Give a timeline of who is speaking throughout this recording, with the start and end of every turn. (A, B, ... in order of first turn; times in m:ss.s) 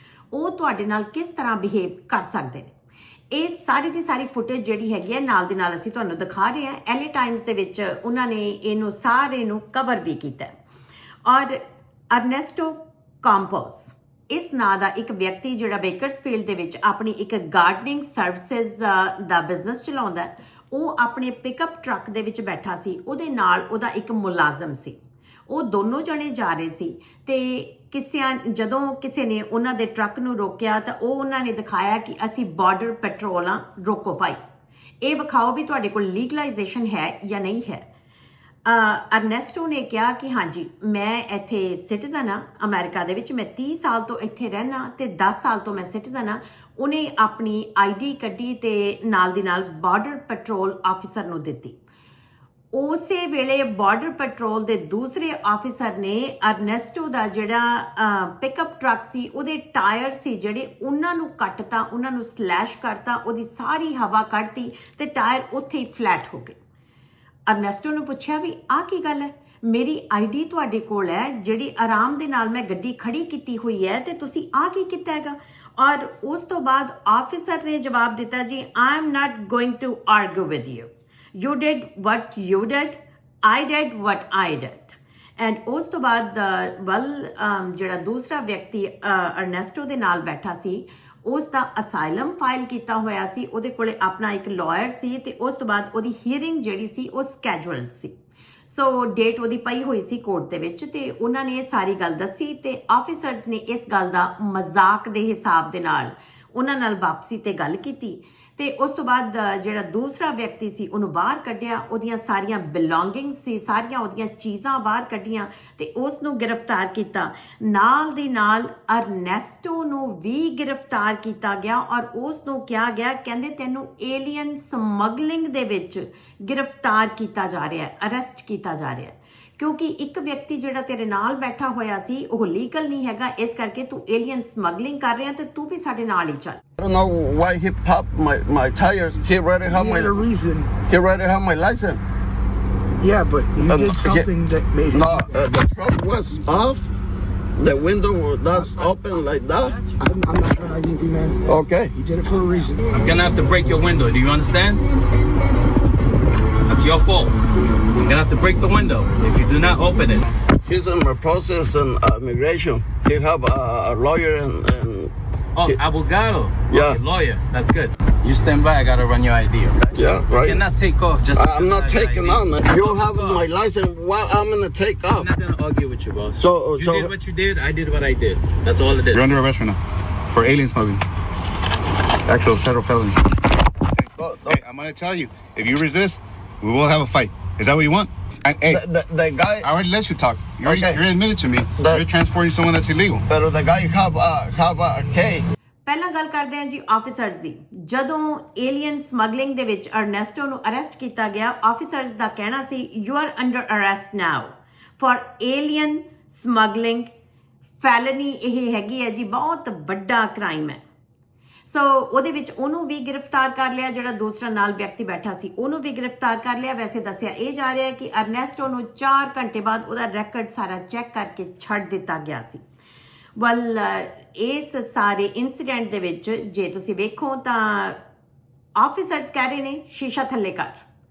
0:00.3-0:02.7 A
0:03.3-0:10.5 A
0:11.3-0:11.6 A
0:12.1-0:25.0 A
0:25.5-0:34.4 A
0:35.0-0:37.8 A
0:38.6-0:51.8 A
0:52.7-1:06.6 A
1:07.5-1:38.1 A
1:38.7-2:16.6 A
2:16.8-2:20.2 B
2:19.7-2:20.7 C
2:20.9-2:22.0 B
2:23.0-2:25.4 C
2:23.6-2:24.3 B
2:24.9-2:26.9 B
2:27.6-2:29.8 B
2:29.6-2:30.0 D
2:30.0-2:32.8 C
2:31.5-2:32.0 B
2:32.9-2:34.8 D
2:36.7-2:37.3 D
2:38.0-2:40.2 D
2:40.6-2:45.1 B
2:45.6-2:53.4 D
2:46.7-2:47.0 B
2:49.9-2:50.6 B
2:51.4-2:55.3 B
2:55.1-2:59.2 D
2:56.4-2:57.1 B
2:59.1-2:59.8 E
3:00.3-3:01.0 E
3:02.3-3:03.2 E
3:04.0-3:08.8 E
3:04.2-3:04.6 B
3:08.7-3:09.7 B
3:09.6-3:13.2 E
3:10.6-3:11.0 B
3:11.8-3:12.0 B
3:13.3-3:15.5 B
3:15.9-3:27.1 A
3:27.8-3:30.8 A
3:31.7-3:42.6 A
3:43.4-3:48.0 A
3:48.8-3:50.8 A